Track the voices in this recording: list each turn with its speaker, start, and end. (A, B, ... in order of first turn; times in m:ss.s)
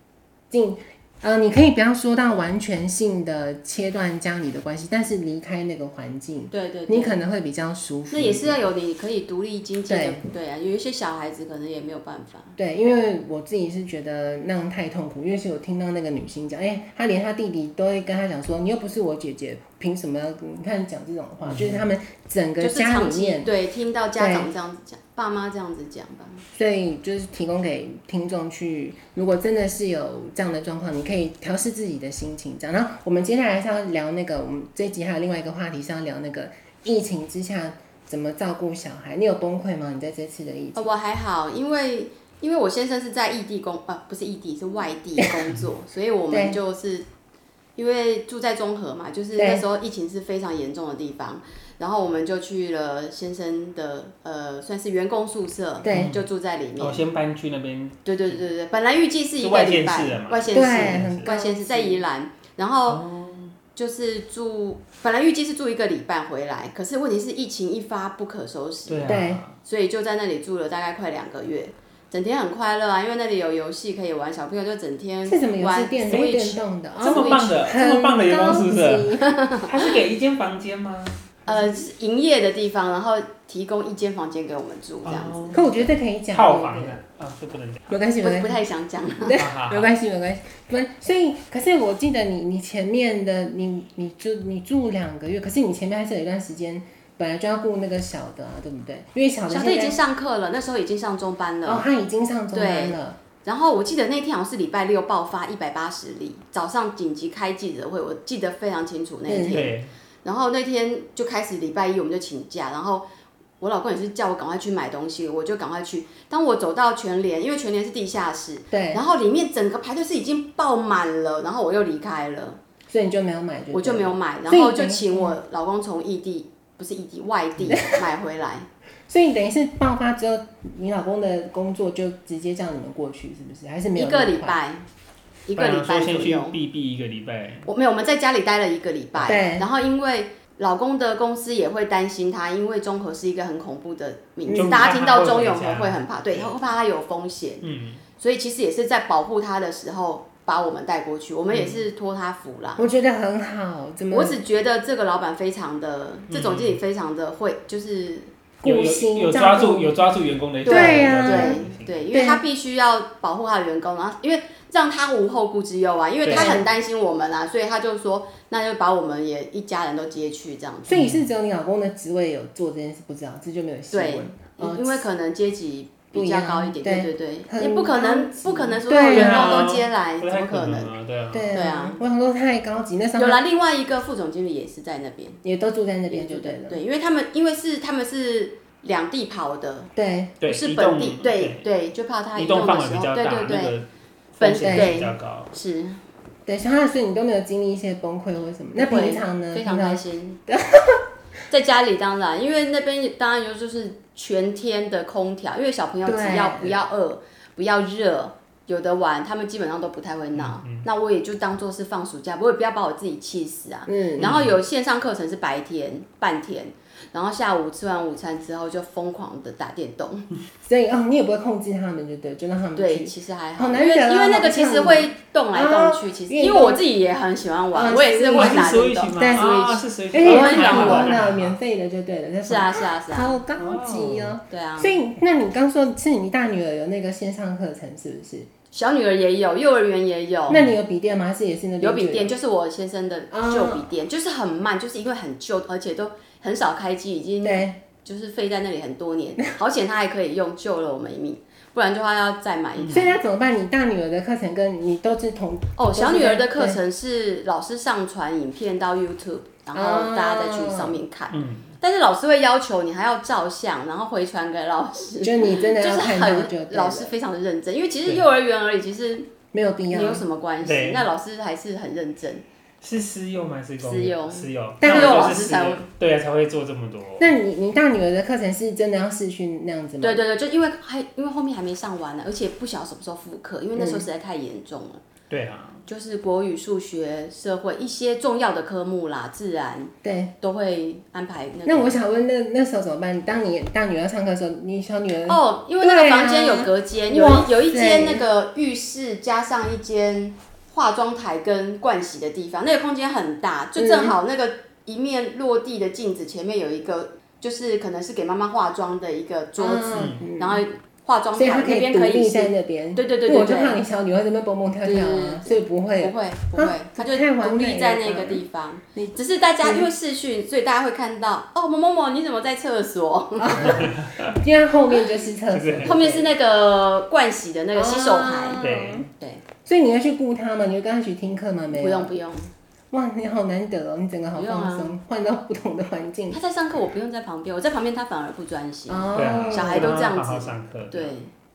0:00.5-0:08.6 A
0:06.5-0:07.2 B
0:08.1-0:12.6 B
0:09.9-0:10.2 A
0:12.6-0:23.5 A
0:21.4-0:21.9 C
0:22.6-0:26.4 B
0:24.2-0:24.5 A
0:26.5-0:40.9 A
0:40.8-0:47.1 B
0:46.3-0:46.6 A
0:47.8-0:57.0 B
0:49.4-0:49.6 A
0:55.8-0:56.2 A
0:55.9-0:56.2 C
0:56.8-0:58.4 C
0:58.0-1:03.0 B
0:59.4-1:01.3 C
1:00.5-1:02.0 A
1:02.9-1:03.6 C
1:03.8-1:17.5 B
1:08.9-1:09.6 C
1:09.0-1:09.4 A
1:15.3-1:19.3 A
1:16.1-1:16.5 C
1:17.0-1:21.4 C
1:19.2-1:19.9 B
1:21.5-1:25.8 B
1:25.0-1:25.7 C
1:25.5-1:27.0 A
1:26.3-1:27.9 C
1:27.9-1:28.6 A
1:28.2-1:29.4 B
1:29.2-1:40.0 A
1:29.4-1:29.9 C
1:39.5-1:41.9 B
1:41.6-1:43.2 A
1:42.5-1:53.1 B
1:49.3-1:49.6 A
1:49.5-1:49.9 C
1:53.6-2:02.6 B
1:58.7-1:59.0 A
2:02.9-2:05.4 A
2:03.7-2:08.7 B
2:07.6-2:08.0 A
2:09.1-2:14.6 A
2:14.0-2:14.8 B
2:15.5-2:16.6 B
2:15.6-2:17.7 C
2:17.7-2:27.7 B
2:19.2-2:19.7 A
2:24.5-2:24.9 A
2:24.5-2:26.6 C
2:27.6-2:28.0 C
2:28.2-2:32.8 B
2:32.8-2:34.4 A
2:34.1-2:38.3 B
2:36.3-2:36.8 C
2:38.6-2:40.0 A
2:38.6-2:42.0 C
2:40.6-2:51.0 B
2:40.7-2:42.4 A
2:46.2-2:46.6 C
2:46.3-2:46.7 A
2:50.9-2:55.1 A
2:50.9-2:51.2 C
2:53.9-3:00.9 B
2:56.1-2:59.7 A
2:59.1-3:01.5 C
3:01.3-3:03.4 A
3:01.5-3:02.0 B
3:03.2-3:05.4 B
3:05.4-3:06.8 A
3:06.1-3:09.9 B
3:10.0-3:10.4 A
3:10.4-3:11.7 C
3:10.4-3:13.8 B
3:12.4-3:15.5 C
3:14.4-3:16.0 B
3:14.6-3:15.0 A
3:16.5-3:21.0 A
3:18.8-3:20.4 B
3:21.5-3:40.3 B
3:26.0-3:26.8 A
3:30.4-3:30.9 C
3:33.9-3:34.3 A
3:34.2-3:34.6 C
3:40.6-3:46.8 A
3:42.8-3:51.2 B
3:47.7-3:49.6 A
3:48.4-3:51.6 C
3:50.1-3:58.5 A
3:52.4-3:53.4 B
3:53.6-3:54.4 C
3:54.5-3:54.9 B
3:58.7-4:00.6 B
4:00.5-4:02.3 A
4:01.8-4:13.2 B
4:03.3-4:03.9 A
4:07.4-4:07.8 A
4:12.8-4:13.1 C
4:12.9-4:16.8 A
4:15.8-4:29.3 B
4:19.7-4:21.0 A
4:21.3-4:21.8 C
4:25.2-4:27.1 A
4:29.5-4:30.2 A
4:29.9-4:32.4 B
4:30.6-4:31.1 C
4:32.8-4:37.4 C
4:33.8-4:35.9 B
4:34.8-4:35.4 A
4:37.2-4:40.2 A
4:40.0-4:45.0 B
4:43.8-4:44.1 A
4:45.3-4:45.8 C
4:45.9-4:52.0 B
4:50.0-4:50.3 A
4:51.7-4:58.3 A
4:55.3-5:13.8 B
5:03.8-5:04.2 A
5:09.6-5:10.6 A
5:09.9-5:10.3 C
5:11.4-5:18.4 A
5:14.8-5:23.9 B
5:19.0-5:19.9 A
5:23.4-5:26.3 A
5:23.7-5:24.4 C
5:25.5-5:26.0 C
5:25.8-5:28.6 B
5:27.7-5:29.1 A
5:28.6-5:29.1 C
5:29.2-5:29.4 B
5:29.6-5:32.1 A
5:31.7-5:32.5 B
5:32.9-5:36.4 A
5:34.4-5:34.9 B
5:36.3-5:41.3 B
5:38.9-5:40.0 A
5:39.2-5:41.1 C